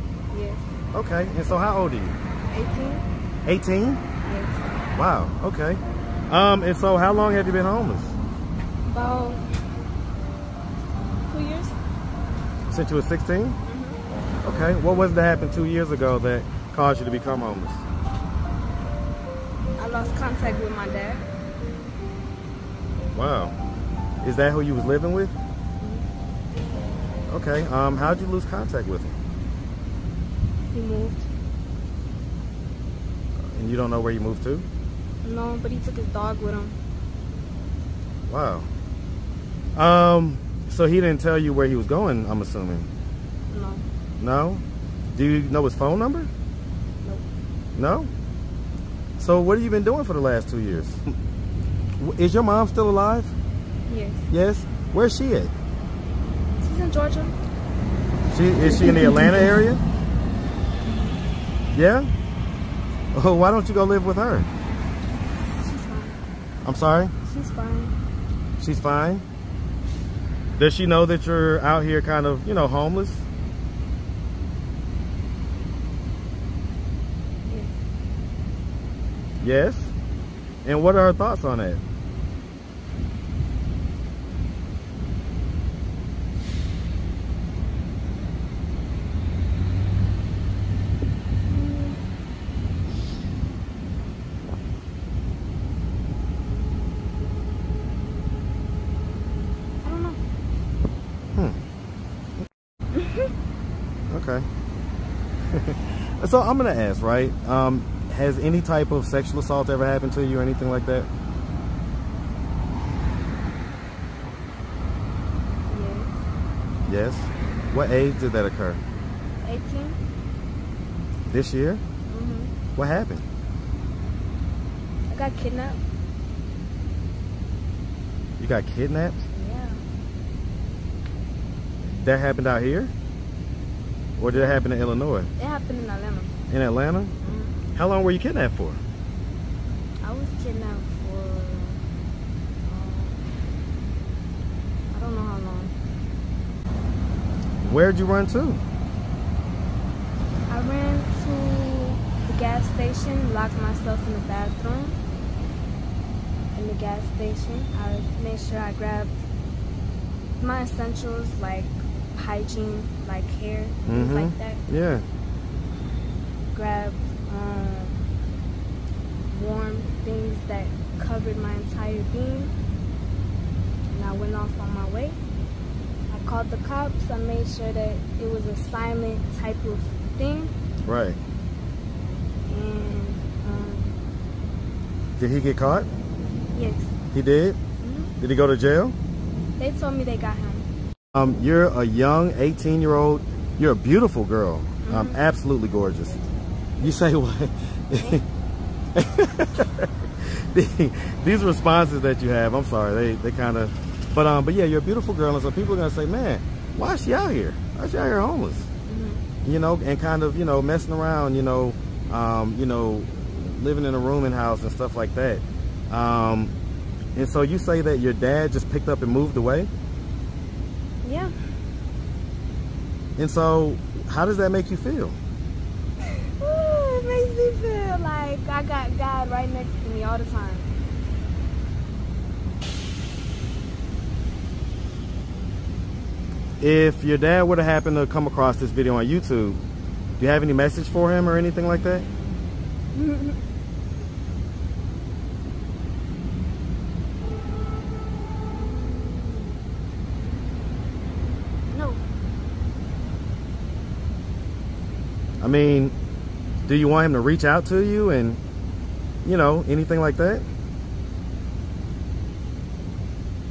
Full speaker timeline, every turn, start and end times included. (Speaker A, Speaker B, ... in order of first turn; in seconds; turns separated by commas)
Speaker A: 0.3-0.8, Speaker B: 0.9-2.2, Speaker A: 2.5-3.0, Speaker B: 3.5-4.0, Speaker A: 4.2-4.8, Speaker B: 4.9-8.2, Speaker A: 8.8-9.4, Speaker A: 11.2-11.8, Speaker B: 12.7-13.6, Speaker A: 13.7-14.0, Speaker B: 14.4-17.8, Speaker A: 19.8-21.3, Speaker B: 23.1-23.6, Speaker B: 24.2-25.3, Speaker A: 25.8-26.1, Speaker B: 27.3-29.2, Speaker A: 30.7-31.3, Speaker B: 33.4-34.7, Speaker A: 35.2-36.8, Speaker B: 38.3-38.7, Speaker B: 39.8-42.9, Speaker A: 43.5-43.8, Speaker B: 44.2-44.6, Speaker B: 45.1-46.3, Speaker B: 47.8-48.1, Speaker B: 49.2-51.0, Speaker B: 52.0-53.3, Speaker A: 53.9-54.3, Speaker B: 54.3-55.5, Speaker A: 56.6-57.4, Speaker B: 58.3-59.8, Speaker A: 58.6-59.5, Speaker A: 60.9-61.2, Speaker B: 61.7-62.1, Speaker B: 63.1-64.5, Speaker A: 65.6-66.2, Speaker B: 66.7-67.1, Speaker A: 67.2-67.9, Speaker B: 68.6-69.2, Speaker B: 70.6-73.2, Speaker A: 77.5-77.8, Speaker B: 79.4-79.9, Speaker B: 80.7-81.8, Speaker A: 91.5-92.0, Speaker A: 99.8-100.2, Speaker A: 102.9-103.3, Speaker B: 104.1-104.5, Speaker B: 105.5-111.1, Speaker A: 115.7-116.2, Speaker B: 116.9-118.8, Speaker A: 119.4-120.0, Speaker B: 121.3-121.8, Speaker A: 122.1-122.5, Speaker B: 122.8-123.2, Speaker A: 125.1-125.8, Speaker B: 128.4-129.2, Speaker A: 129.3-129.8, Speaker B: 131.9-132.9, Speaker B: 134.2-135.3, Speaker A: 135.4-136.3, Speaker B: 136.5-137.2, Speaker A: 137.2-137.6, Speaker B: 137.7-138.8, Speaker A: 140.0-141.8, Speaker A: 142.7-143.2, Speaker A: 144.9-145.7, Speaker B: 147.6-148.6, Speaker A: 150.5-155.0, Speaker A: 156.5-159.2, Speaker A: 160.4-164.6, Speaker B: 163.9-165.1, Speaker A: 166.5-168.1, Speaker A: 169.3-172.5, Speaker A: 173.9-175.2, Speaker A: 176.1-180.5, Speaker B: 180.9-181.2, Speaker A: 182.5-184.0, Speaker B: 185.2-185.9, Speaker A: 186.5-186.9, Speaker B: 187.1-187.6, Speaker A: 187.8-188.1, Speaker B: 188.2-189.0, Speaker A: 189.6-190.7, Speaker B: 191.1-196.3, Speaker A: 194.8-195.2, Speaker B: 196.8-198.2, Speaker B: 198.9-208.7, Speaker A: 208.9-209.2, Speaker B: 209.4-216.5, Speaker B: 217.2-219.7, Speaker A: 221.0-221.3, Speaker B: 223.2-225.2, Speaker A: 226.0-230.7, Speaker B: 236.6-239.6, Speaker B: 240.2-242.1, Speaker A: 242.9-243.4, Speaker A: 251.7-252.0, Speaker B: 255.4-255.9, Speaker B: 256.6-258.4, Speaker B: 259.2-260.5